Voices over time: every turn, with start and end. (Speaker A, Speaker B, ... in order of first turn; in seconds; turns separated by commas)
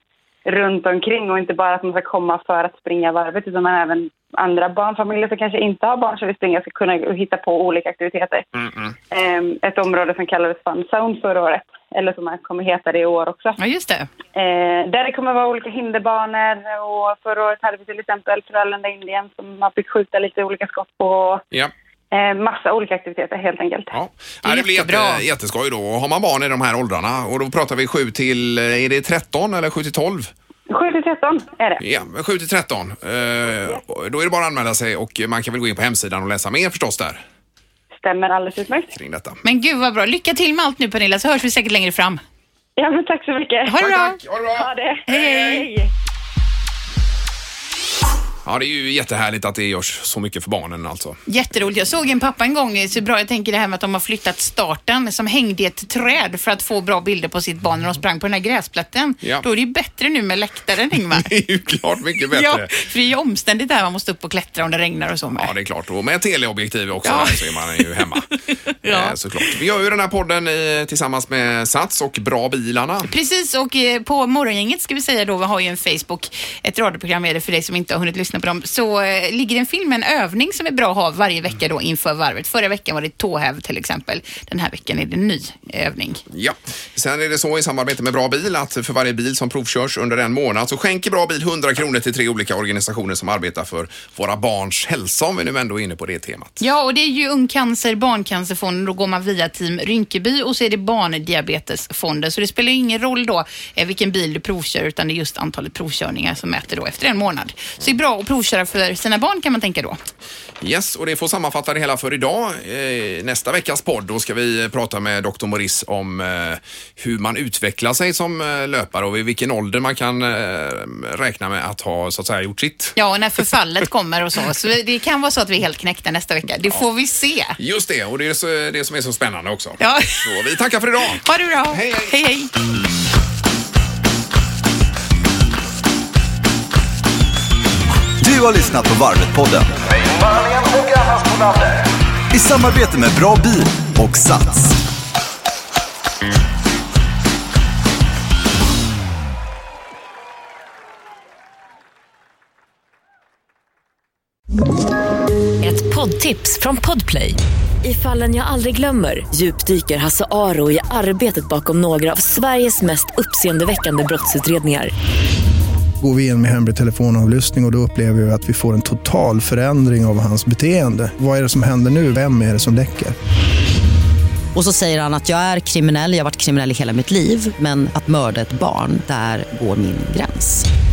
Speaker A: 0.4-8.5, Speaker B: 8.6-8.9, Speaker A: 9.1-13.6, Speaker C: 13.6-14.1, Speaker A: 14.3-21.4, Speaker A: 22.1-24.0, Speaker B: 23.9-30.3, Speaker C: 24.4-25.2, Speaker A: 30.7-31.8, Speaker B: 31.8-37.2, Speaker A: 38.0-38.9, Speaker B: 38.9-39.4, Speaker C: 39.4-42.2, Speaker A: 42.8-43.8, Speaker C: 43.6-44.2, Speaker B: 43.8-45.7, Speaker A: 44.5-45.9, Speaker B: 48.4-51.2, Speaker C: 51.3-61.3, Speaker B: 61.1-62.7, Speaker C: 62.3-65.5, Speaker B: 65.3-68.3, Speaker C: 67.0-67.4, Speaker C: 68.8-69.1, Speaker B: 68.8-73.1, Speaker C: 73.1-86.2, Speaker B: 86.3-96.6, Speaker C: 96.6-110.0, Speaker B: 110.6-123.0, Speaker C: 123.0-127.6, Speaker B: 127.6-132.1, Speaker C: 129.8-130.3, Speaker C: 131.2-132.5, Speaker D: 138.2-141.1, Speaker D: 142.3-144.8, Speaker E: 155.6-164.9, Speaker F: 166.0-173.2, Speaker G: 174.5-180.7